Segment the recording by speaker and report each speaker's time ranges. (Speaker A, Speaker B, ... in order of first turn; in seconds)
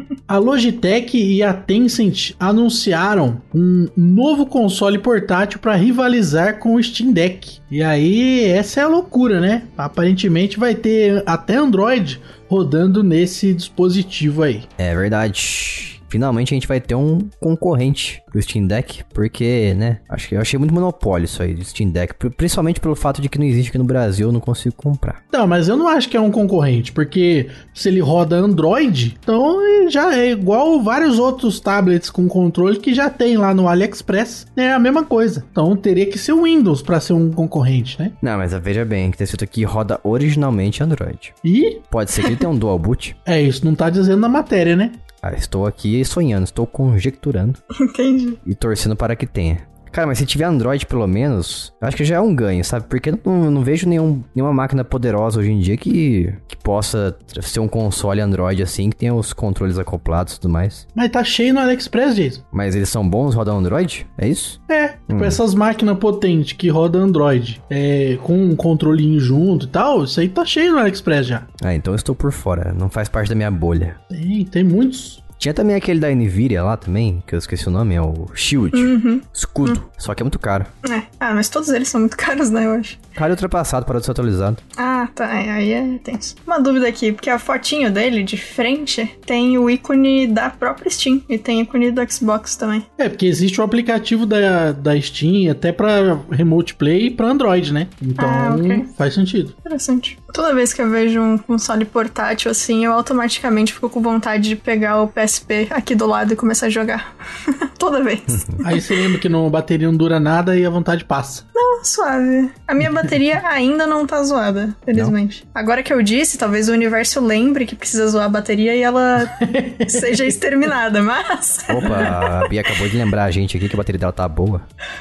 Speaker A: 0.3-14.7, 25.3-38.1, 41.4-41.8, 43.3-45.0, 61.0-62.4, 64.7-71.5, 74.1-75.2, 93.0-99.5, 108.6-111.5, 119.4-120.3
Speaker B: 14.8-25.2, 38.2-41.3, 41.9-43.2, 45.2-47.6, 48.4-60.8, 62.5-64.6, 65.1-65.4, 71.6-74.0, 75.4-80.7, 83.2-84.6, 108.3-108.6, 121.7-124.7
Speaker C: 47.7-48.4, 78.7-79.8, 80.8-83.0, 84.8-92.8, 98.2-98.9, 99.6-109.0, 111.5-122.5